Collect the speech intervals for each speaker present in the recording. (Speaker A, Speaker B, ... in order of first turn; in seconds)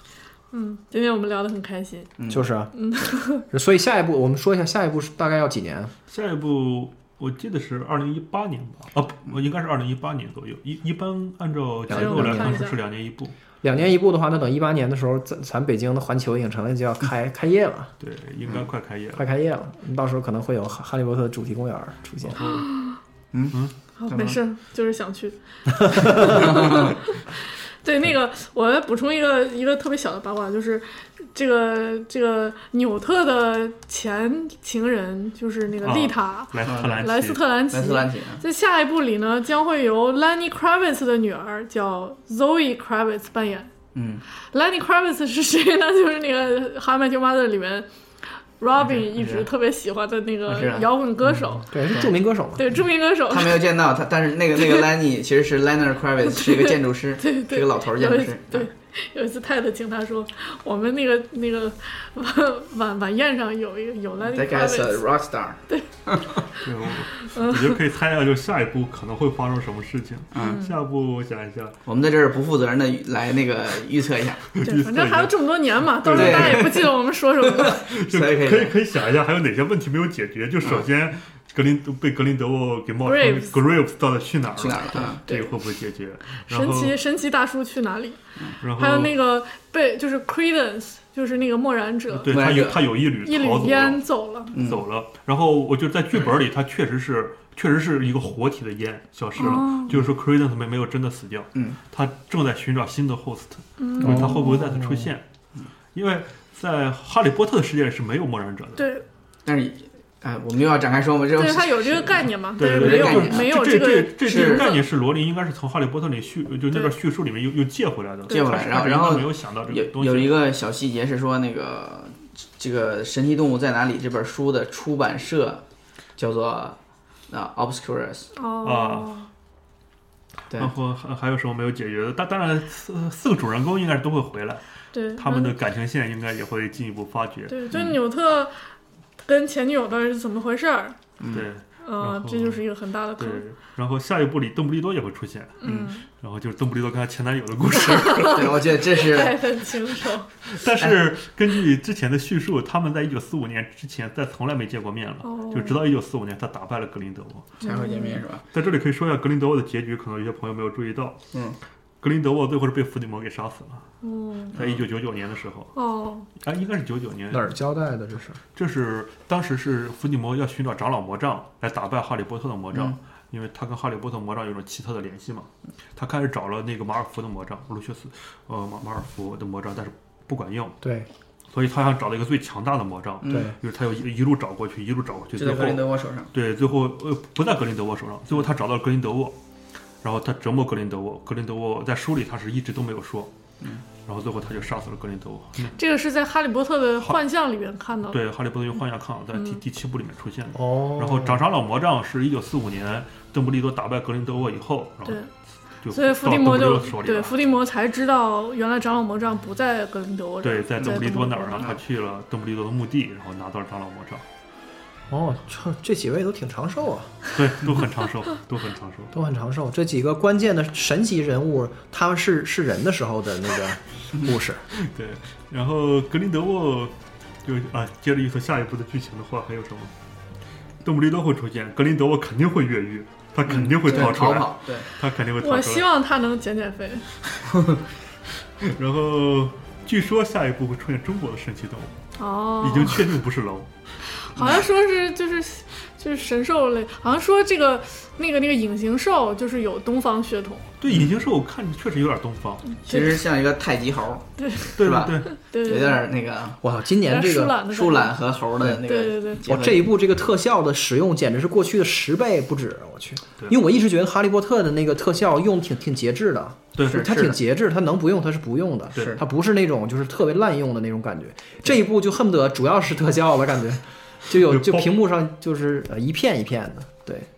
Speaker A: 0.5-2.1, 2.7-3.4, 11.9-12.8, 22.4-22.9, 24.0-43.7, 44.5-47.9, 48.6-51.9, 52.6-53.6, 56.4-65.0, 67.2-67.8, 70.4-70.7, 74.6-77.8, 83.0-83.6, 85.2-85.6, 86.4-88.2, 88.8-92.4, 93.2-94.5, 99.4-99.9, 103.8-104.6, 108.8-109.0, 111.3-114.8, 118.3-118.6, 128.3-129.3, 134.9-135.6, 137.5-138.5, 139.2-141.0, 141.8-143.4, 145.6-146.0, 148.0-150.3, 155.2-155.8, 157.6-158.2, 164.0-164.5, 165.8-166.3, 195.8-198.2, 205.9-211.7, 235.4-237.1, 242.2-243.0, 244.3-250.7, 252.7-253.2, 254.4-256.0, 257.0-258.1, 258.8-259.4
Speaker B: 2.2-2.5, 23.3-24.4, 26.3-26.8, 36.6-37.0, 37.7-38.4, 43.9-44.2, 48.8-49.5, 50.5-50.9, 53.3-58.7, 64.2-66.3, 70.3-70.6, 71.8-74.5, 76.1-76.9, 77.4-78.8, 84.6-85.2, 92.3-92.8, 94.5-94.8, 109.5-113.5, 114.2-114.8, 118.3-125.6, 126.2-126.8, 127.3-128.3, 137.7-138.0, 141.2-141.4, 145.6-145.9, 148.3-149.4, 157.6-158.4, 161.3-161.6, 164.5-164.8, 183.2-183.5, 185.3-186.3, 233.5-234.9, 244.3-244.6, 252.8-256.6, 257.7-259.9, 266.8-267.4, 268.9-269.2
Speaker C: 2.3-2.7, 3.5-5.9, 11.9-12.7, 13.6-17.9, 19.1-22.4, 51.7-52.7, 104.0-105.1, 167.3-168.4, 180.8-181.1, 183.3-183.5, 200.5-201.4, 215.1-217.2, 219.1-224.6, 256.6-257.6, 259.4-277.3
Speaker D: 6.1-13.3, 18.0-19.3, 22.2-22.7, 23.5-24.2, 35.8-37.4, 66.5-71.8, 74.5-76.9, 77.7-87.0, 88.6-89.2, 92.1-105.2, 105.9-108.9, 112.5-120.3, 128.6-129.2, 130.6-137.7, 141.3-148.6, 150.4-157.6, 158.5-161.2, 162.0-163.9, 164.5-165.8, 166.4-167.5, 168.5-180.8, 181.5-189.4, 190.0-193.3, 194.1-195.8, 198.1-205.3, 205.8-207.4, 210.4-214.2, 217.3-219.1, 224.7-229.9, 230.8-235.9, 238.6-241.9, 242.6-243.7, 250.8-252.7, 254.8-255.3, 266.8-267.1, 274.5-274.9